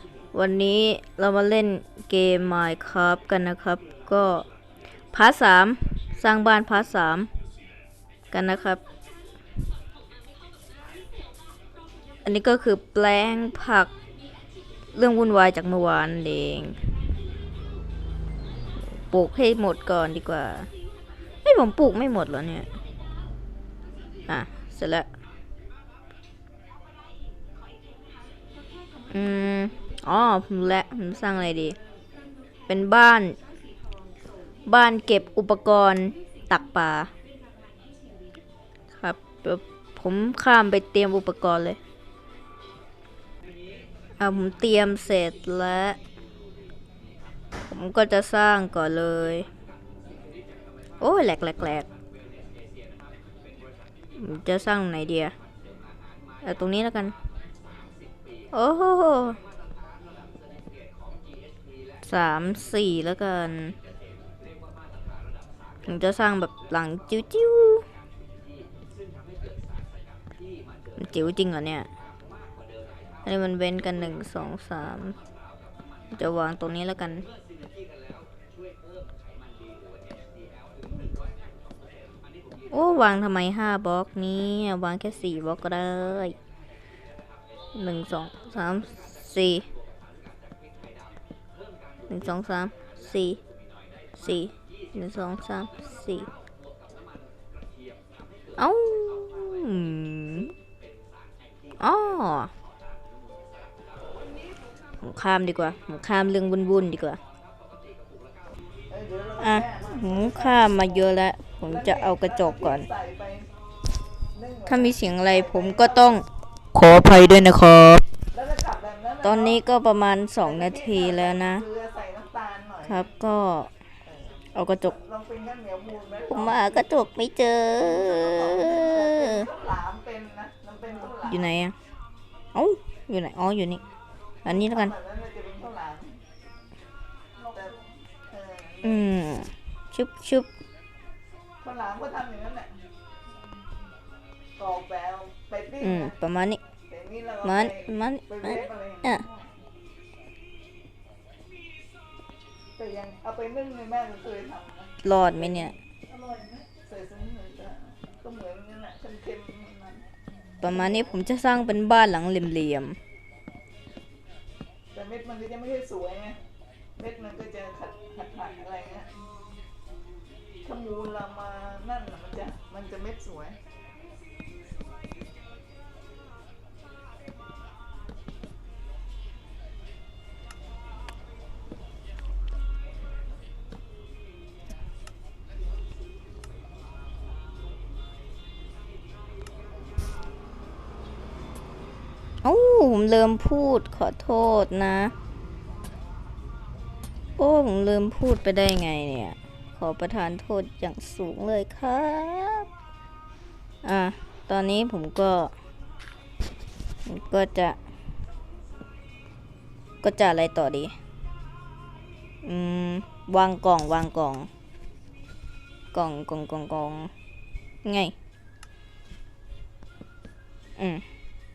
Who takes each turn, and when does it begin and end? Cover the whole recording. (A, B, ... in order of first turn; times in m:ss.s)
0:00.3-0:04.4 A
0:05.1-0:07.3 A
0:08.3-0:08.8 A
0:12.2-0:13.9 A
0:14.9-0:16.8 A
0:18.8-0:20.7 A
0:21.4-0:22.7 A
0:24.3-0:25.1 A
0:29.1-0:31.8 A
0:32.7-0:33.4 A
0:34.7-0:37.1 A
0:39.0-0:41.8 A
0:44.2-0:46.0 A
0:47.7-0:49.5 A
0:51.0-0:51.9 A
0:54.2-0:55.3 A
0:56.4-0:57.1 A
0:58.5-0:59.4 A
1:02.0-1:03.8 A
1:05.8-1:07.8 A
1:11.0-1:11.9 A
1:13.2-1:15.2 A
1:16.1-1:17.3 A
1:22.7-1:26.4 A
1:27.7-1:29.7 A
1:32.1-1:33.4 A
1:34.2-1:36.3 A
1:38.6-1:40.5 A
1:41.8-1:42.5 A
1:45.0-1:47.2 A
1:48.9-1:51.1 B
1:49.4-1:52.9 A
1:51.6-1:53.5 B
1:54.3-1:56.2 B
1:54.6-1:58.0 A
1:58.3-1:59.6 B
1:59.2-2:01.6 A
2:00.4-2:03.0 B
2:02.8-2:03.7 A
2:04.5-2:05.0 A
2:04.9-2:06.8 B
2:06.3-2:09.5 A
2:07.8-2:11.5 B
2:11.2-2:11.8 A
2:12.5-2:13.8 A
2:14.4-2:14.9 A
2:14.5-2:16.2 B
2:17.4-2:17.8 B
2:18.3-2:19.0 B
2:18.8-2:20.5 A
2:21.6-2:22.7 B
2:24.6-2:26.1 B
2:25.8-2:26.6 A
2:26.9-2:29.4 B
2:27.4-2:29.2 A
2:32.8-2:40.1 B
2:35.0-2:35.7 A
2:40.6-2:43.0 A
2:44.9-2:46.4 B
2:47.0-2:49.1 B
2:50.6-2:53.6 B
3:12.4-3:15.1 A
3:17.4-3:22.7 A
3:23.8-3:25.5 A
3:27.0-3:27.8 A
3:30.0-3:31.0 A
3:32.4-3:34.5 A
3:35.9-3:37.1 A
3:37.8-3:38.1 A
3:40.8-3:41.0 A